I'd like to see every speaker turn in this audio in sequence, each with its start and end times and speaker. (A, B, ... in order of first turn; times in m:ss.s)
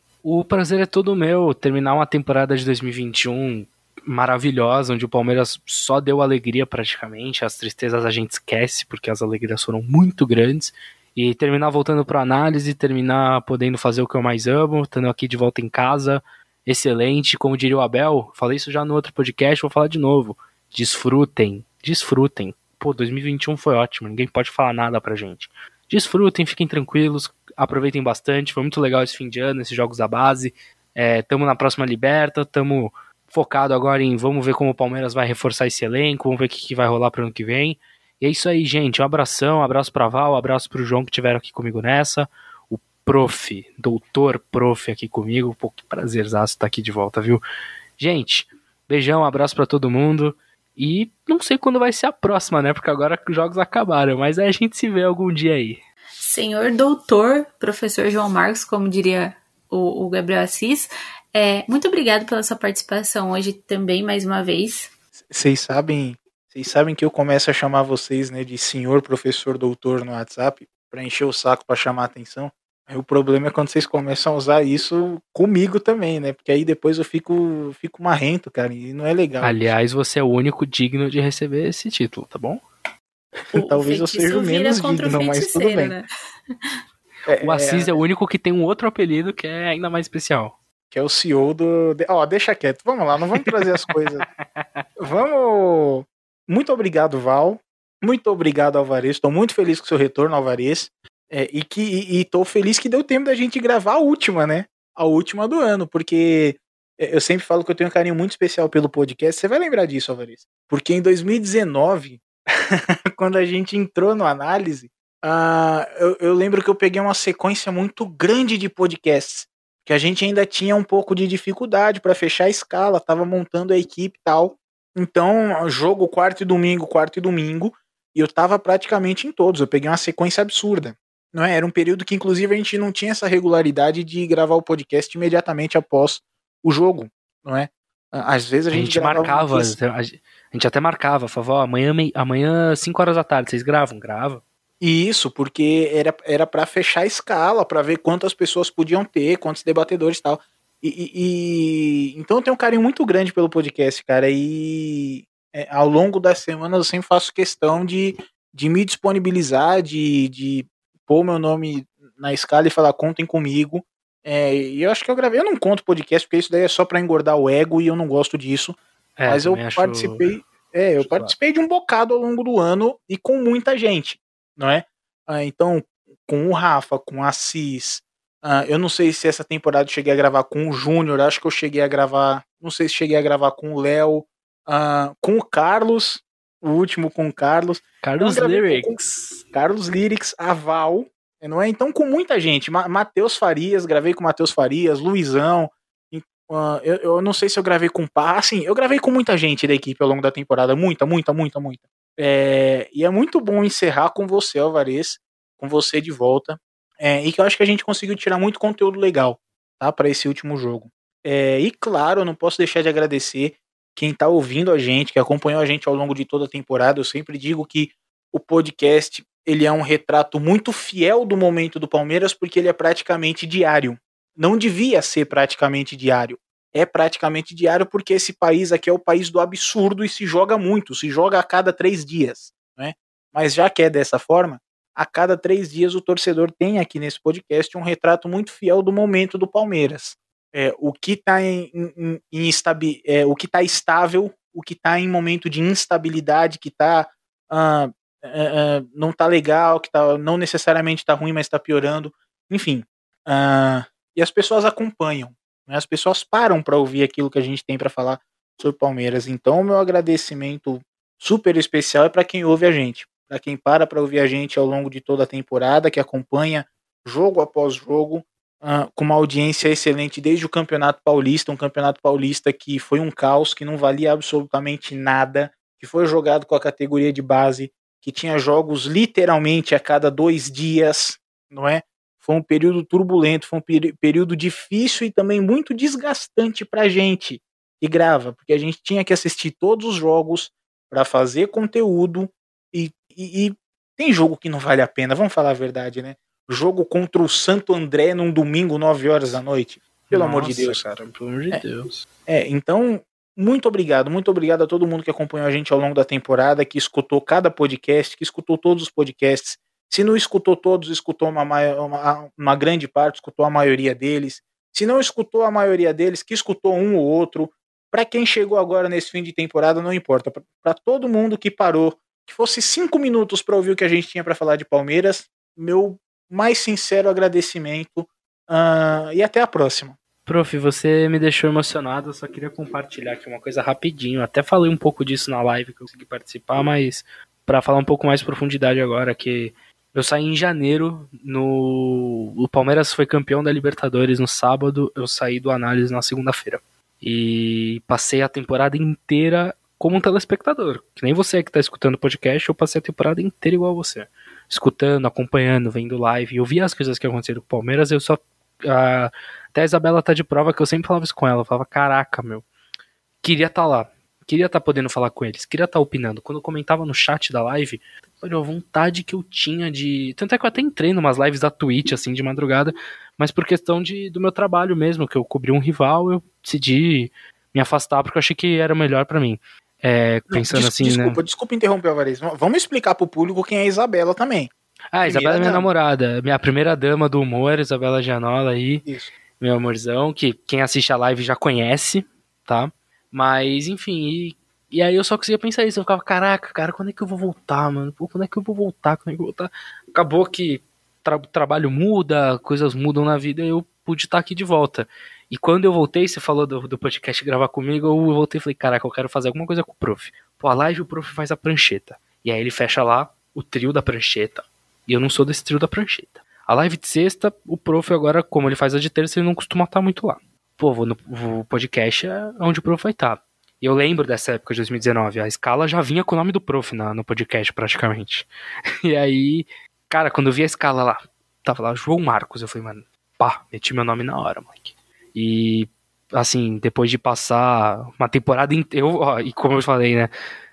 0:00.2-0:47.4 A
0:48.0-0:55.8 A
0:56.2-1:04.9 B
1:05.3-1:19.7 C
1:19.4-1:22.6 A
1:23.5-1:25.9 C
1:23.5-1:26.5 B
1:27.3-1:28.0 C
1:27.4-1:30.6 A
1:30.9-1:34.2 C
1:35.0-2:19.7 C
2:18.7-2:24.4 A
2:24.8-3:09.0 C
2:49.2-2:50.5 A
2:51.0-2:51.3 A
3:08.0-3:09.4 A
3:09.5-5:00.8 C
5:00.1-5:02.0 A
5:02.3-5:30.0 C
5:30.2-6:02.4 A
6:03.2-6:21.2 A
6:20.3-6:24.5 C
6:24.9-6:28.9 A
6:25.0-6:25.7 C
6:28.8-6:29.1 C
6:29.4-7:08.3 A
7:08.8-7:20.1 A